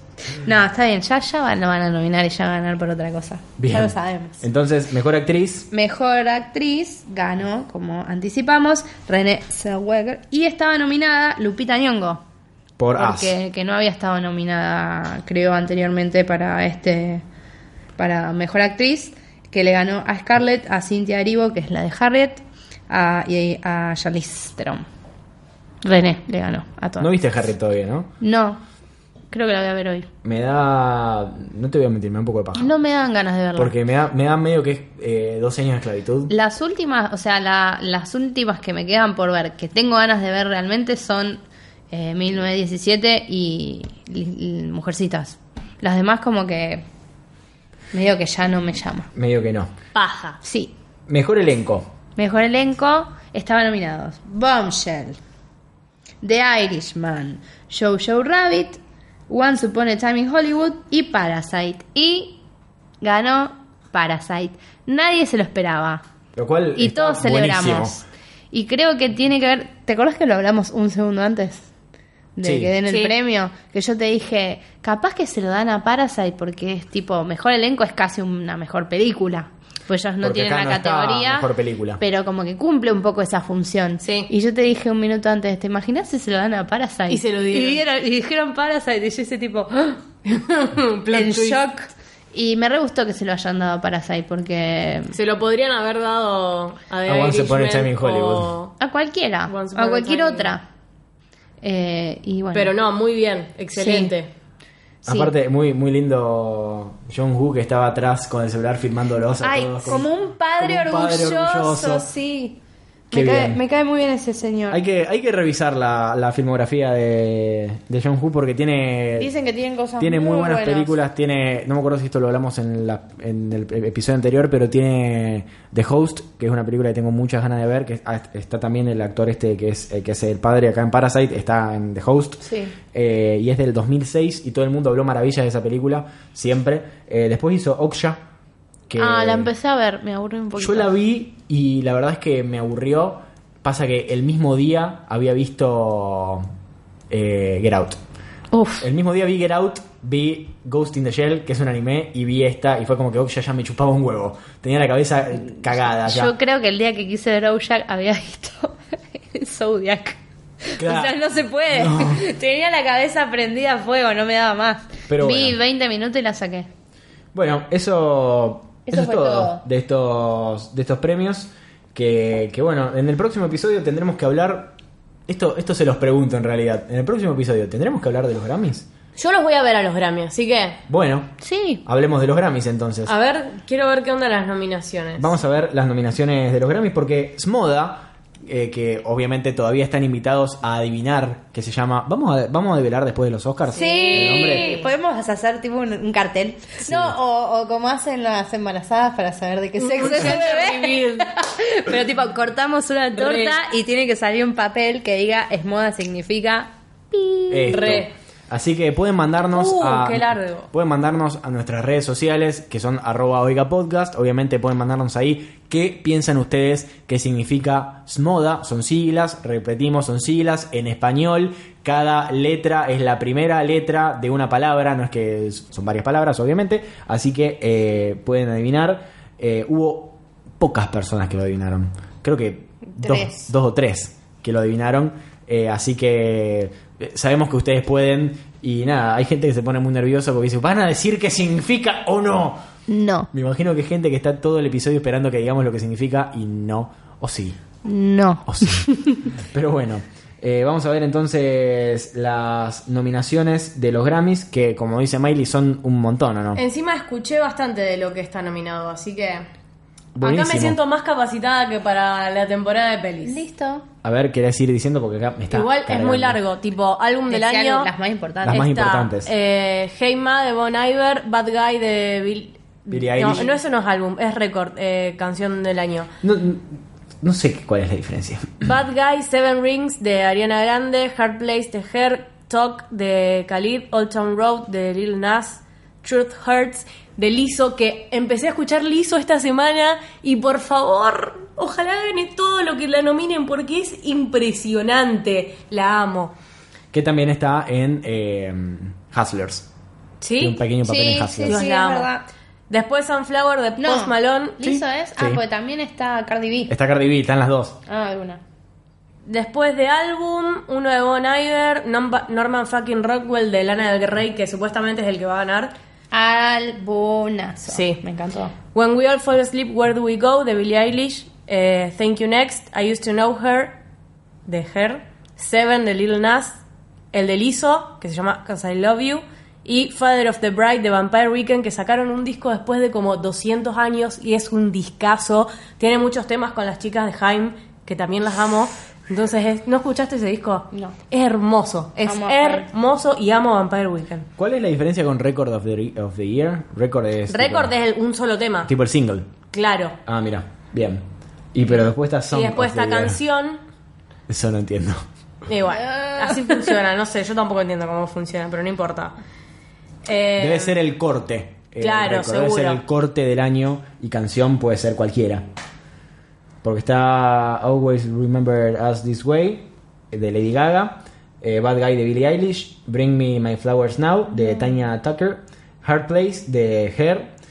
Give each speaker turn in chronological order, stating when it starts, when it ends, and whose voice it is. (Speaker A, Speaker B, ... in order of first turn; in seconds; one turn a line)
Speaker A: 0.3-4.4
Speaker B: 3.6-5.7
Speaker A: 5.7-12.2
Speaker B: 12.8-13.4
Speaker A: 13.0-17.2
Speaker A: 18.0-24.8
Speaker A: 25.8-27.1
Speaker B: 27.0-28.1
Speaker A: 28.2-28.6
Speaker A: 29.3-30.1
Speaker B: 30.2-32.7
Speaker A: 32.5-33.7
Speaker B: 33.6-36.3
Speaker A: 36.3-46.8
Speaker A: 47.9-49.1
Speaker B: 49.1-49.7
Speaker C: 49.9-50.4
Speaker A: 50.4-50.7
Speaker B: 51.1-51.9
Speaker A: 52.2-55.2
Speaker A: 56.2-62.4
Speaker A: 63.0-66.0
Speaker B: 66.3-68.0
Speaker A: 66.8-71.7
Speaker A: 72.3-81.5
Speaker B: 72.4-72.8
Speaker B: 80.2-82.0
Speaker A: 82.0-90.0
Speaker C: 84.0-84.3
Speaker C: 87.1-87.8
Speaker C: 90.2-91.6
Speaker A: 91.1-95.2
Speaker C: 95.1-98.7
Speaker B: 97.0-98.5
Speaker A: 98.8-100.6
Speaker C: 99.5-100.5
Speaker A: 101.6-102.7
Speaker C: 102.5-104.3
Speaker A: 103.7-104.1
Speaker A: 105.0-105.3
Speaker B: 105.0-112.1
Speaker A: 109.4-112.6
Speaker A: 113.1-114.8
Speaker B: 113.1-113.6
Speaker B: 114.7-119.3
Speaker A: 119.2-120.9
Speaker B: 120.0-138.2
Speaker A: 132.4-132.7
Speaker B: 138.9-139.5
Speaker A: 138.9-140.9
Speaker B: 140.6-146.5
Speaker B: 147.1-148.0
Speaker A: 148.5-148.8
Speaker B: 148.8-156.3
Speaker A: 156.0-166.7
Speaker B: 160.8-161.2
Speaker B: 161.7-162.2
Speaker B: 165.1-165.6
Speaker B: 167.3-174.8
Speaker A: 168.9-169.6
Speaker B: 175.3-178.9
Speaker C: 179.2-180.8
Speaker B: 180.9-181.3
Speaker A: 181.4-181.8
Speaker B: 181.8-183.1
Speaker C: 183.1-185.3
Speaker B: 185.2-194.7
Speaker C: 193.7-194.9
Speaker A: 193.7-207.8
Speaker B: 196.8-197.2
Speaker C: 199.8-201.3
Speaker C: 203.1-203.6
Speaker B: 207.5-242.6
Speaker C: 207.7-208.1
Speaker C: 209.5-210.7
Speaker A: 232.8-233.5
Speaker A: 242.9-243.3
Speaker B: 243.3-247.6
Speaker A: 247.8-249.2
Speaker B: 248.4-248.8
Speaker B: 249.4-256.6
Speaker C: 256.5-259.5
Speaker B: 260.1-260.8
Speaker C: 260.2-263.4
Speaker A: 263.2-263.9
Speaker B: 264.0-266.4
Speaker C: 265.5-267.9
Speaker A: 267.3-268.6
Speaker B: 268.4-269.3
Speaker C: 268.4-276.1
Speaker B: 272.9-273.6
Speaker B: 276.2-278.7
Speaker C: 278.6-296.3
Speaker B: 296.9-299.7
Speaker C: 300.2-300.6
Speaker B: 300.4-301.6
Speaker A: 300.8-302.2
Speaker C: 301.4-302.1
Speaker C: 302.7-304.6
Speaker A: 303.8-306.7
Speaker B: 304.6-305.4
Speaker B: 306.7-307.8
Speaker A: 307.9-308.4
Speaker C: 309.2-315.7
Speaker A: 316.1-318.5
Speaker C: 317.7-318.0
Speaker C: 318.7-323.7
Speaker C: 324.4-326.6
Speaker C: 327.1-344.3
Speaker A: 342.0-342.7
Speaker B: 344.4-347.7
Speaker C: 347.3-348.7
Speaker B: 348.6-349.3
Speaker C: 349.5-350.0
Speaker B: 350.1-353.2
Speaker C: 352.3-353.6
Speaker B: 354.3-355.0
Speaker C: 355.5-359.2
Speaker A: 355.7-356.6
Speaker C: 360.0-360.8
Speaker B: 360.4-365.4
Speaker C: 361.8-362.8
Speaker B: 366.6-377.3